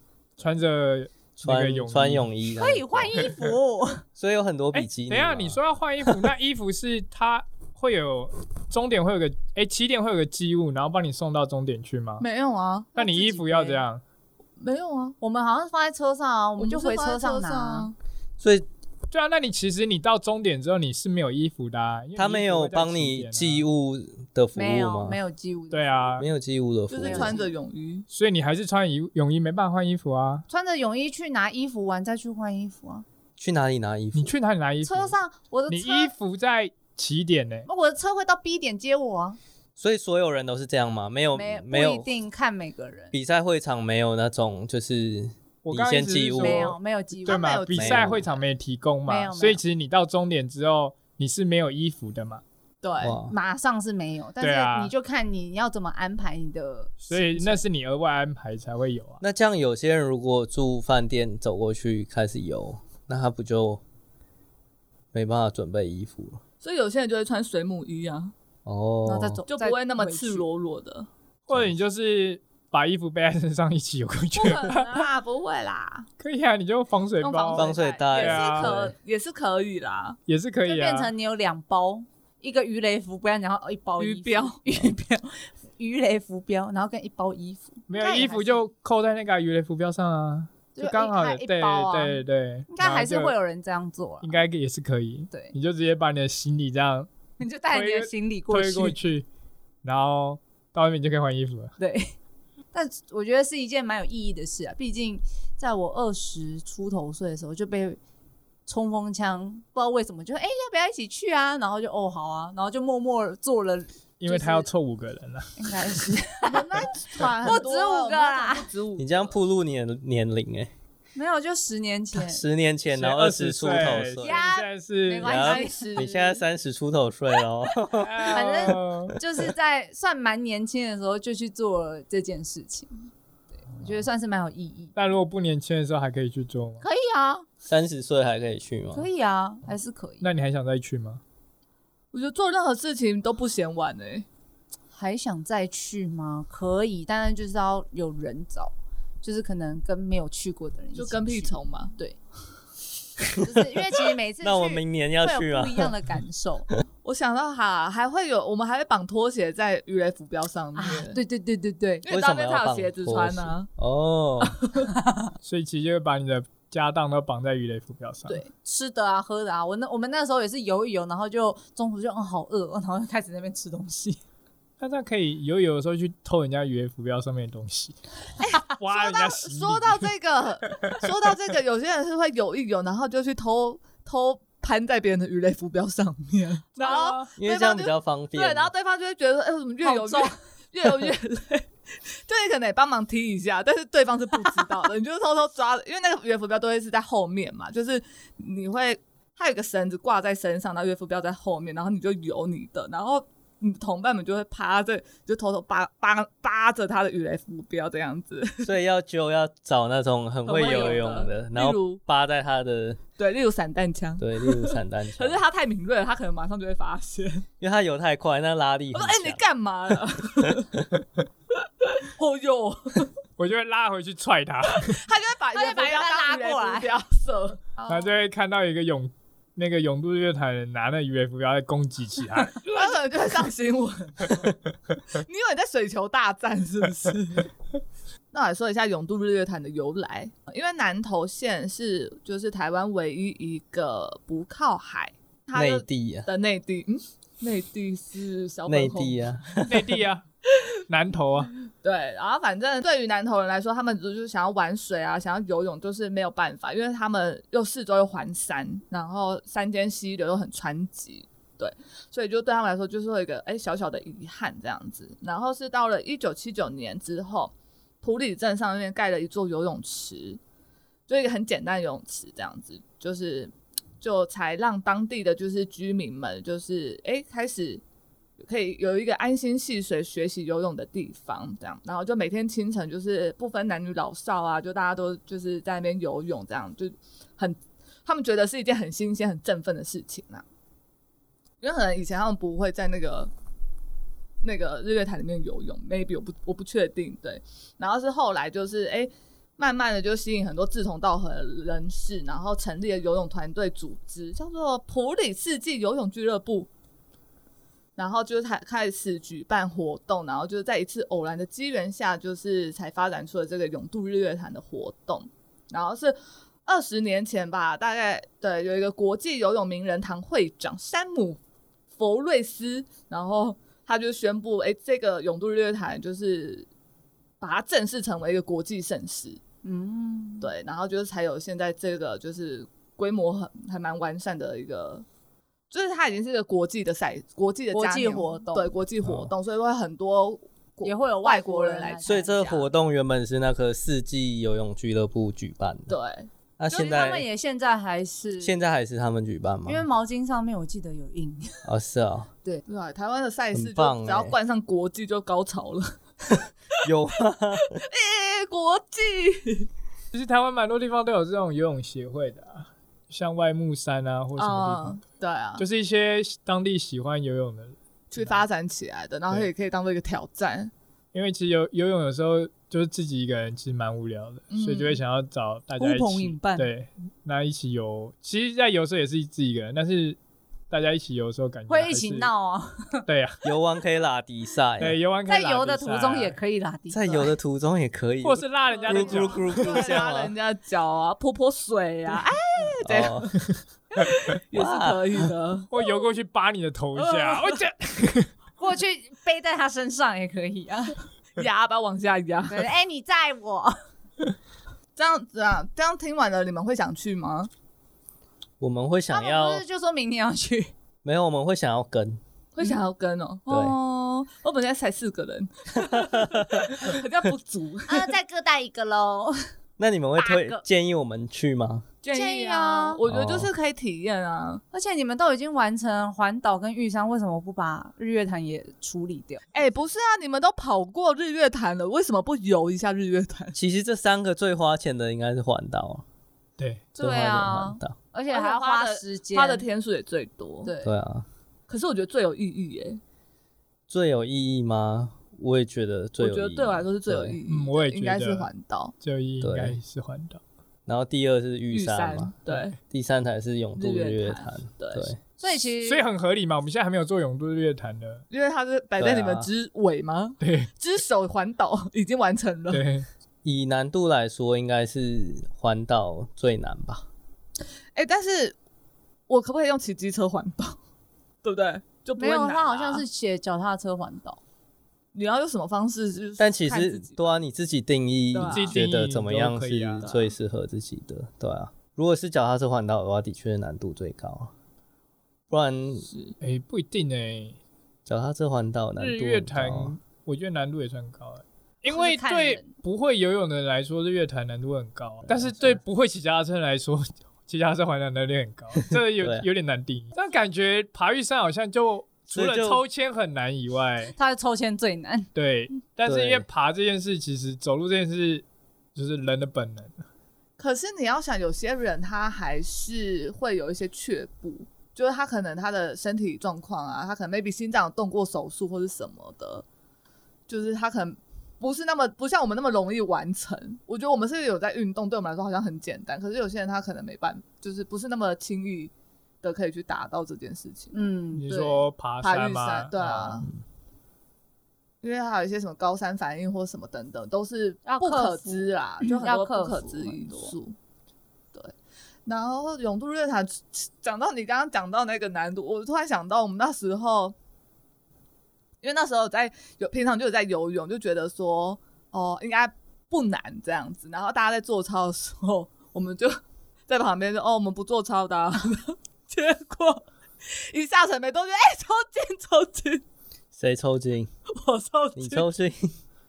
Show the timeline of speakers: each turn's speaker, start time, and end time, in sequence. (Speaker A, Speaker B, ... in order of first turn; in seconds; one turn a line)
Speaker A: 0.4-2.3
Speaker B: 1.4-3.4
Speaker C: 2.5-4.0
Speaker B: 4.2-5.6
Speaker A: 4.7-12.2
Speaker D: 12.2-13.7
Speaker A: 13.0-14.0
Speaker C: 13.4-13.8
Speaker D: 14.6-15.2
Speaker C: 15.2-17.9
Speaker D: 16.6-17.9
Speaker B: 18.4-18.7
Speaker A: 19.1-23.6
Speaker B: 22.2-25.2
Speaker C: 24.6-26.2
Speaker A: 25.7-26.3
Speaker B: 26.2-27.4
Speaker D: 26.9-28.1
Speaker C: 27.0-27.5
Speaker A: 28.1-30.5
Speaker C: 30.5-33.0
Speaker B: 33.4-34.3
Speaker A: 34.1-35.1
Speaker C: 34.9-36.1
Speaker A: 35.7-37.7
Speaker C: 37.7-39.4
Speaker B: 39.8-42.1
Speaker C: 41.3-43.1
Speaker B: 43.1-46.8
Speaker A: 45.6-52.4
Speaker C: 46.4-47.5
Speaker D: 47.3-48.3
Speaker B: 47.7-48.3
Speaker C: 49.1-49.6
Speaker D: 52.8-53.2
Speaker B: 53.0-53.3
Speaker C: 53.2-57.6
Speaker A: 54.4-54.9
Speaker A: 57.0-59.2
Speaker B: 59.2-63.8
Speaker B: 65.1-66.4
Speaker D: 66.6-68.3
Speaker B: 68.7-69.4
Speaker C: 69.1-70.5
Speaker D: 69.5-71.1
Speaker A: 71.5-75.1
Speaker D: 74.3-76.1
Speaker A: 76.2-78.8
Speaker D: 77.2-80.2
Speaker B: 77.5-78.9
Speaker A: 80.3-81.1
Speaker C: 80.7-88.7
Speaker D: 84.0-84.6
Speaker A: 87.9-93.3
Speaker C: 90.8-94.4
Speaker A: 94.2-97.1
Speaker C: 97.4-99.0
Speaker A: 97.7-99.3
Speaker A: 99.8-101.7
Speaker C: 101.8-102.1
Speaker C: 102.7-108.0
Speaker C: 108.7-114.7
Speaker A: 114.2-116.1
Speaker C: 115.6-116.8
Speaker D: 116.4-119.3
Speaker C: 117.4-118.7
Speaker B: 119.0-120.7
Speaker C: 121.2-122.4
Speaker B: 122.1-124.4
Speaker A: 122.9-125.5
Speaker C: 124.2-126.1
Speaker B: 125.2-128.8
Speaker D: 125.3-126.4
Speaker A: 128.0-129.2
Speaker C: 128.3-133.1
Speaker C: 133.7-134.9
Speaker A: 135.0-136.8
Speaker C: 136.8-137.4
Speaker B: 137.7-139.1
Speaker C: 138.9-140.3
Speaker A: 140.2-141.2
Speaker D: 142.1-144.3
Speaker C: 144.9-152.2
Speaker D: 150.9-151.9
Speaker C: 153.4-156.7
Speaker B: 154.4-155.9
Speaker D: 157.0-161.2
Speaker C: 160.8-162.1
Speaker D: 162.0-163.7
Speaker B: 162.1-164.6
Speaker D: 164.4-164.9
Speaker C: 165.0-165.3
Speaker A: 165.4-168.4
Speaker C: 168.3-174.2
Speaker A: 174.8-178.0
Speaker D: 178.4-208.7
Speaker A: 178.6-180.1
Speaker A: 186.8-187.3
Speaker B: 187.4-188.7
Speaker C: 189.8-190.3
Speaker B: 208.6-213.0
Speaker D: 210.4-212.0
Speaker D: 213.2-217.5
Speaker B: 214.2-215.4
Speaker B: 217.6-219.4
Speaker D: 218.9-220.8
Speaker D: 221.8-223.1
Speaker A: 223.4-225.0
Speaker D: 224.7-228.1
Speaker C: 225.5-226.9
Speaker A: 227.9-232.7
Speaker D: 232.6-234.6
Speaker D: 235.1-237.5
Speaker D: 238.3-249.6
Speaker B: 245.6-246.3
Speaker B: 248.7-250.0
Speaker A: 249.7-250.3
Speaker A: 250.9-251.5
Speaker D: 251.8-270.4
Speaker D: 271.1-277.8
Speaker D: 278.4-290.4
Speaker D: 291.6-293.3
Speaker D: 294.4-306.7
Speaker D: 308.0-321.4
Speaker D: 322.0-326.7
Speaker D: 327.4-329.4
Speaker C: 329.6-330.5
Speaker D: 330.4-335.1
Speaker D: 335.7-342.6
Speaker C: 337.7-338.7
Speaker C: 340.9-342.6
Speaker B: 342.1-345.9
Speaker D: 345.9-347.1
Speaker B: 346.6-347.2
Speaker C: 346.7-348.6
Speaker B: 348.4-349.9
Speaker C: 349.7-351.6
Speaker B: 351.6-352.3
Speaker D: 352.7-356.8
Speaker B: 353.5-354.4
Speaker B: 356.8-357.8
Speaker D: 357.7-359.7
Speaker A: 360.1-365.0
Speaker D: 364.4-365.6
Speaker A: 365.6-368.4
Speaker D: 368.1-370.7
Speaker A: 371.1-380.2
Speaker D: 374.5-375.0
Speaker C: 375.8-376.7
Speaker A: 380.7-382.3
Speaker C: 381.7-383.1
Speaker A: 383.1-383.4
Speaker B: 383.4-385.0
Speaker A: 384.8-386.4
Speaker C: 385.3-387.3
Speaker B: 386.9-390.3
Speaker A: 388.2-389.9
Speaker D: 388.8-393.3
Speaker B: 392.9-393.3
Speaker D: 393.9-395.8
Speaker B: 394.5-395.3
Speaker A: 395.7-398.3
Speaker D: 397.0-397.6
Speaker C: 398.6-401.0
Speaker D: 401.4-402.6
Speaker C: 402.5-403.8
Speaker D: 405.0-407.5
Speaker B: 408.6-409.6
Speaker C: 409.1-410.7
Speaker B: 411.0-412.2
Speaker D: 412.6-418.1
Speaker B: 413.5-413.8
Speaker B: 415.8-416.6
Speaker C: 417.9-419.4
Speaker B: 419.8-421.9
Speaker C: 420.2-420.6
Speaker D: 422.0-424.6
Speaker C: 422.1-423.0
Speaker B: 423.1-423.5
Speaker C: 424.7-429.4
Speaker D: 429.5-433.6
Speaker B: 433.6-436.0
Speaker A: 436.6-436.9
Speaker C: 437.0-439.6
Speaker B: 437.0-438.0
Speaker D: 438.3-440.7
Speaker C: 440.6-440.9
Speaker B: 440.8-441.3
Speaker D: 441.7-443.0
Speaker B: 443.9-447.4
Speaker D: 446.2-448.9
Speaker A: 447.5-448.5
Speaker A: 449.0-450.4
Speaker B: 449.4-449.8
Speaker B: 450.9-452.3
Speaker D: 451.7-452.8
Speaker B: 452.9-455.2
Speaker D: 453.8-455.1
Speaker C: 455.4-456.0
Speaker A: 455.8-458.2
Speaker D: 458.3-462.9
Speaker B: 459.0-459.5
Speaker A: 460.4-460.7
Speaker A: 462.7-463.1
Speaker B: 463.4-467.1
Speaker D: 467.9-468.6
Speaker D: 469.3-470.8
Speaker D: 471.4-473.1
Speaker C: 472.2-474.4
Speaker D: 475.1-477.3
Speaker B: 476.4-484.5
Speaker D: 478.3-478.8
Speaker A: 478.5-480.0
Speaker D: 480.0-480.3
Speaker B: 485.5-486.1
Speaker A: 486.4-487.6
Speaker B: 488.1-489.9
Speaker A: 489.0-504.1
Speaker C: 491.9-492.7
Speaker B: 495.2-495.8
Speaker B: 499.0-499.5
Speaker B: 502.3-502.8
Speaker C: 504.1-505.3
Speaker A: 505.4-508.4
Speaker B: 506.1-506.5
Speaker A: 508.9-510.0
Speaker D: 510.6-519.6
Speaker D: 520.5-528.9
Speaker D: 529.4-533.5
Speaker C: 530.9-531.8
Speaker A: 531.3-533.4
Speaker D: 535.0-540.8
Speaker C: 537.9-540.5
Speaker D: 542.3-547.4
Speaker D: 548.8-563.0
Speaker B: 563.6-564.3
Speaker D: 564.5-565.5
Speaker B: 565.2-565.9